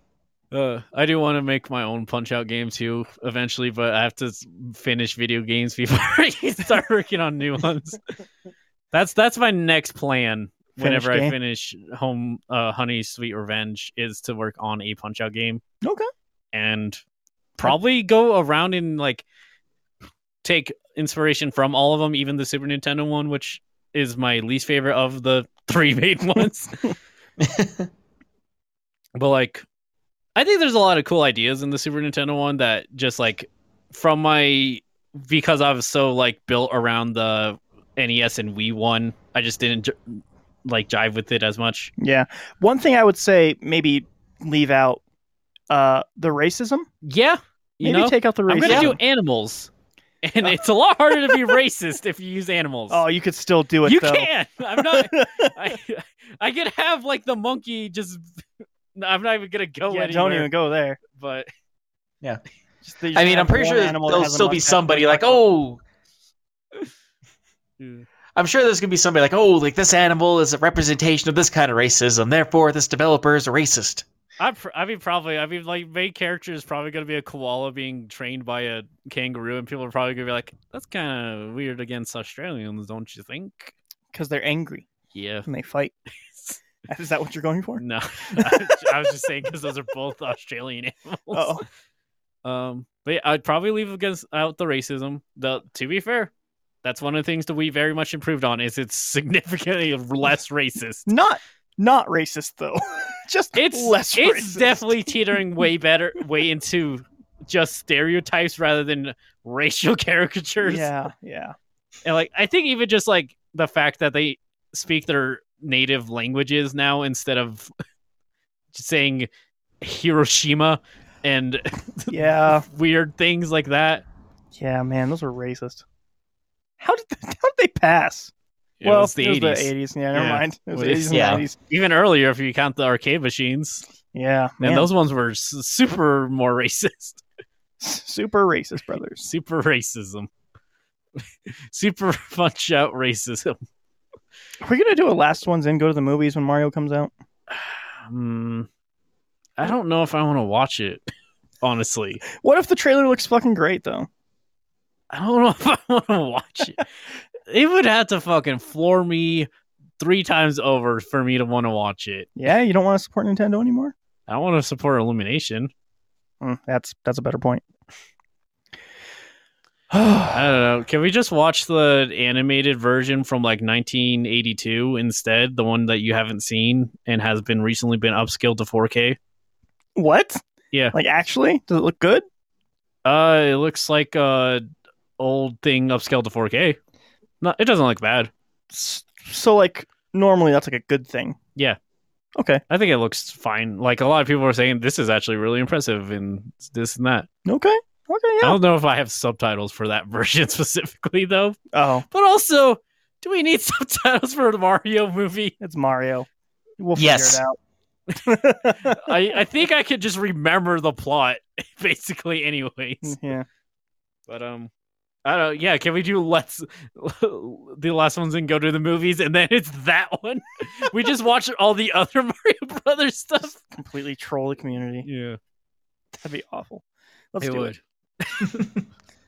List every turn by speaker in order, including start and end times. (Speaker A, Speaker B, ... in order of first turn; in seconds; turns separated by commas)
Speaker A: 0.5-8.0, Speaker A: 8.9-15.6, Speaker B: 10.8-11.3, Speaker B: 15.8-16.1, Speaker A: 16.5-17.0, Speaker A: 17.6-19.2, Speaker A: 20.4-26.9, Speaker C: 27.4-27.9, Speaker A: 29.1-29.7, Speaker A: 30.4-41.9, Speaker B: 42.0-45.0, Speaker B: 45.7-46.9, Speaker A: 47.0-49.7, Speaker B: 47.8-49.0, Speaker C: 48.6-49.0, Speaker A: 50.2-53.0, Speaker B: 51.2-51.6, Speaker B: 52.9-55.5, Speaker A: 53.9-58.3, Speaker A: 59.0-60.5, Speaker B: 59.9-61.0, Speaker A: 61.0-61.5, Speaker B: 62.8-65.4, Speaker C: 63.1-65.8, Speaker A: 67.8-68.1, Speaker C: 68.4-74.0, Speaker A: 74.4-83.7, Speaker B: 84.1-84.9, Speaker A: 85.1-85.5, Speaker B: 85.5-85.9, Speaker B: 86.9-87.8, Speaker A: 87.8-91.6, Speaker B: 88.4-88.8, Speaker B: 91.3-91.6, Speaker A: 92.5-96.3, Speaker A: 96.8-101.1, Speaker B: 101.1-105.1, Speaker A: 103.5-110.9, Speaker B: 110.6-111.5, Speaker A: 112.0-117.7, Speaker A: 118.7-119.3, Speaker A: 119.8-124.0, Speaker B: 122.1-122.7, Speaker B: 124.6-125.8, Speaker B: 126.8-128.3, Speaker A: 128.8-133.8, Speaker B: 128.8-131.6, Speaker C: 131.1-131.4, Speaker B: 134.1-134.9, Speaker A: 134.6-137.2, Speaker B: 137.8-139.2, Speaker A: 139.2-140.3, Speaker A: 141.7-143.6, Speaker B: 144.6-147.1, Speaker A: 147.5-148.7, Speaker A: 149.6-151.0, Speaker A: 151.6-152.2, Speaker B: 152.4-154.1, Speaker A: 155.1-156.8, Speaker A: 157.5-162.3, Speaker B: 162.4-163.9, Speaker A: 164.3-165.7, Speaker B: 166.4-167.6, Speaker B: 169.9-170.4, Speaker A: 170.3-179.2, Speaker B: 180.0-180.4, Speaker B: 180.9-182.2, Speaker A: 183.1-184.7, Speaker A: 185.2-186.8, Speaker A: 187.4-188.3, Speaker B: 188.7-191.4, Speaker B: 192.4-192.6, Speaker A: 192.7-197.3, Speaker B: 197.5-198.6, Speaker A: 198.4-205.6, Speaker B: 201.7-202.1, Speaker B: 205.6-206.3, Speaker B: 206.8-207.6, Speaker C: 207.0-207.4, Speaker A: 208.2-213.2, Speaker B: 208.2-209.1, Speaker B: 213.0-213.5, Speaker A: 214.3-214.7, Speaker A: 215.2-223.6, Speaker B: 223.7-225.1, Speaker A: 225.0-225.4, Speaker B: 226.2-227.7, Speaker A: 227.4-228.7